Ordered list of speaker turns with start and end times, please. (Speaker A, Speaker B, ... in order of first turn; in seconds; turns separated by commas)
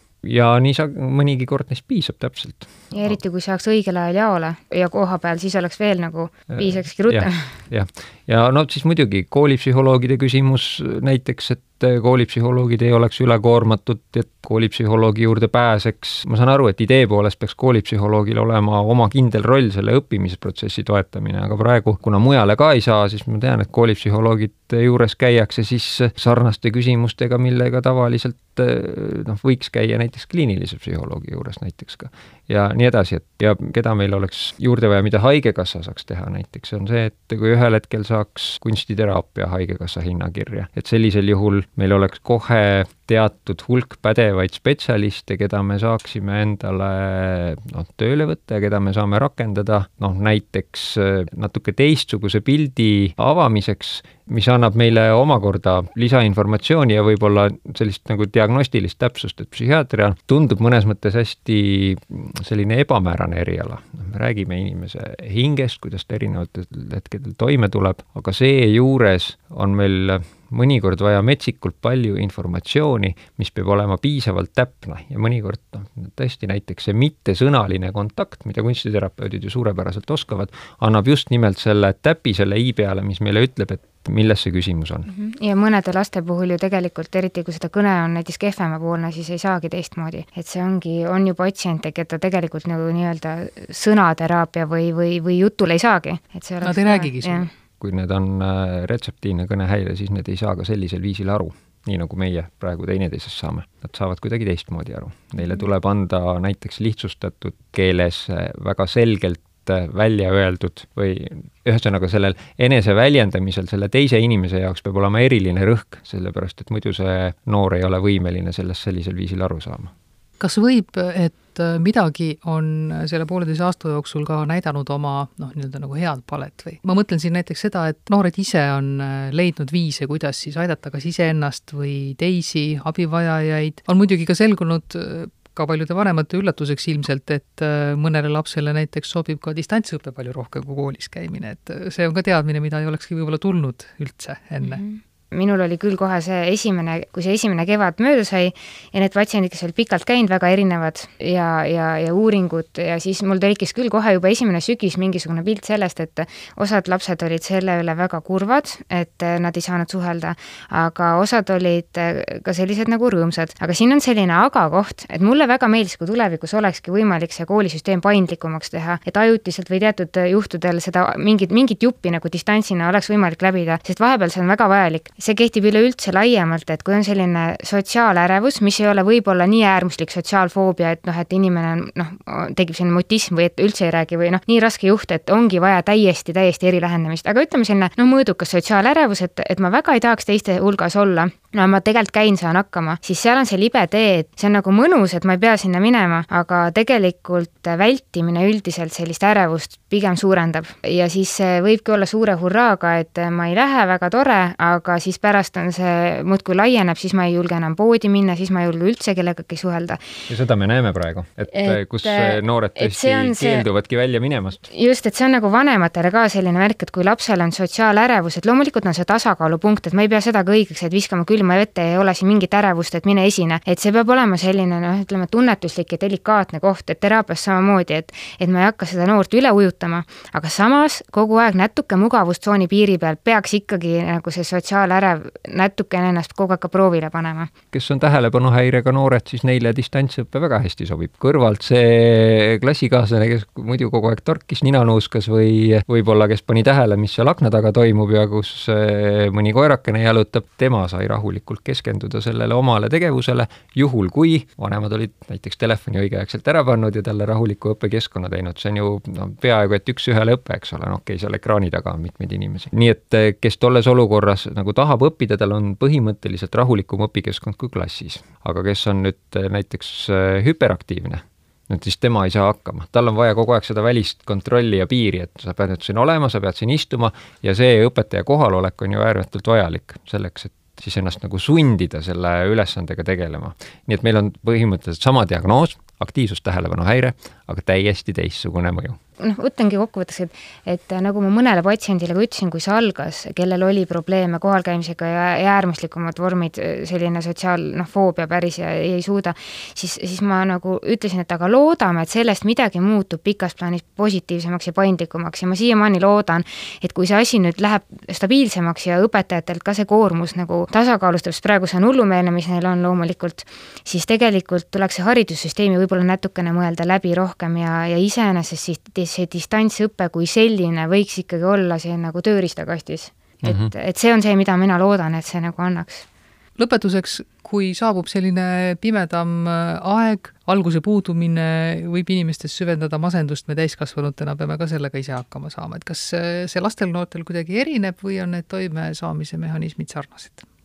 Speaker A: 0.2-3.2, Speaker B: 2.9-7.5, Speaker A: 6.5-85.1, Speaker B: 85.1-97.5, Speaker C: 96.6-97.5, Speaker A: 97.8-119.9, Speaker C: 120.4-144.8, Speaker B: 144.6-210.0, Speaker A: 210.3-214.7, Speaker B: 211.5-213.7, Speaker B: 214.7-237.5, Speaker A: 237.7-289.0, Speaker B: 289.2-326.0, Speaker A: 323.4-323.7, Speaker C: 326.6-340.4